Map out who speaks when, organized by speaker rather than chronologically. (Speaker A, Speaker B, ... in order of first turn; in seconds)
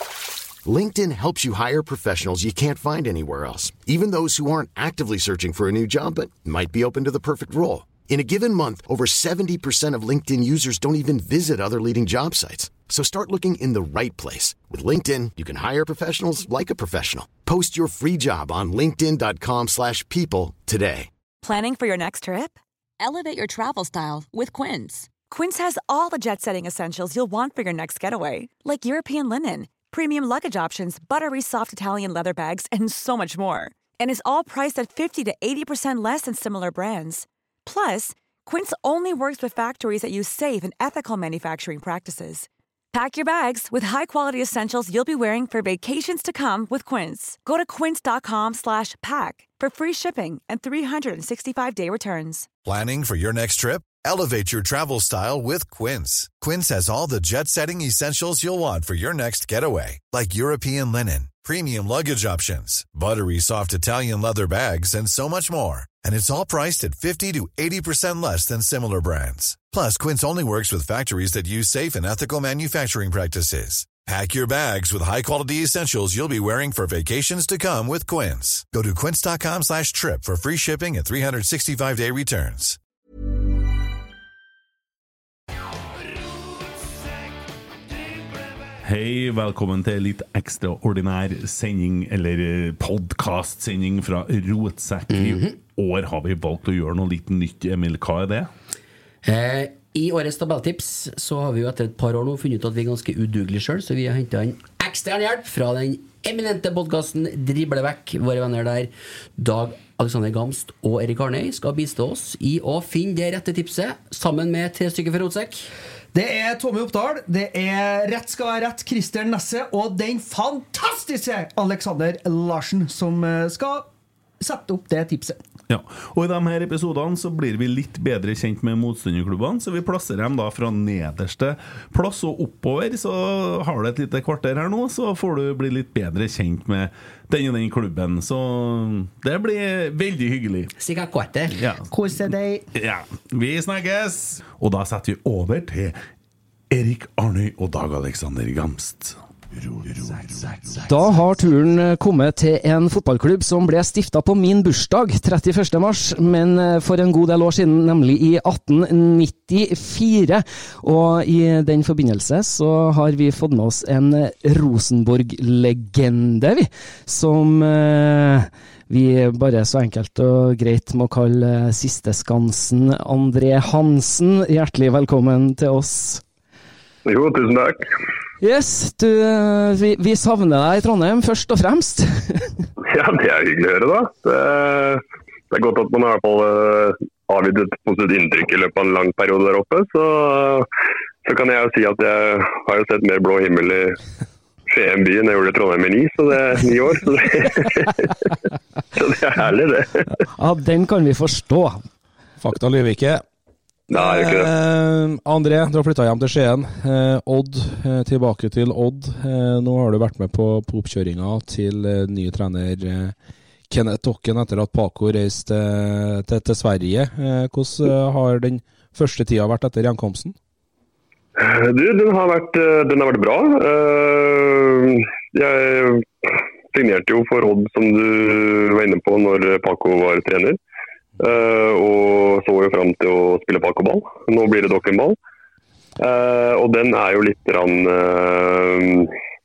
Speaker A: 0.6-21.1
Speaker B: 21.4-52.5
Speaker C: 52.6-82.8
Speaker D: 88.8-98.5, 125.7-140.7, 141.6-141.9, 142.7-146.0, 146.7-150.4
Speaker E: 95.1-95.6, 99.2-115.7, 140.8-141.6
Speaker F: 116.1-125.4, 141.9-142.7
Speaker G: 150.8-176.2, 178.4-182.6, 200.4-201.8
Speaker H: 177.0-177.9, 182.8-190.7, 191.2-194.0, 194.7-198.1, 198.9-200.1, 203.9-204.5, 221.4-230.6, 231.2-235.2, 236.0-239.1
Speaker I: 202.4-203.2, 203.9-213.1, 213.7-220.3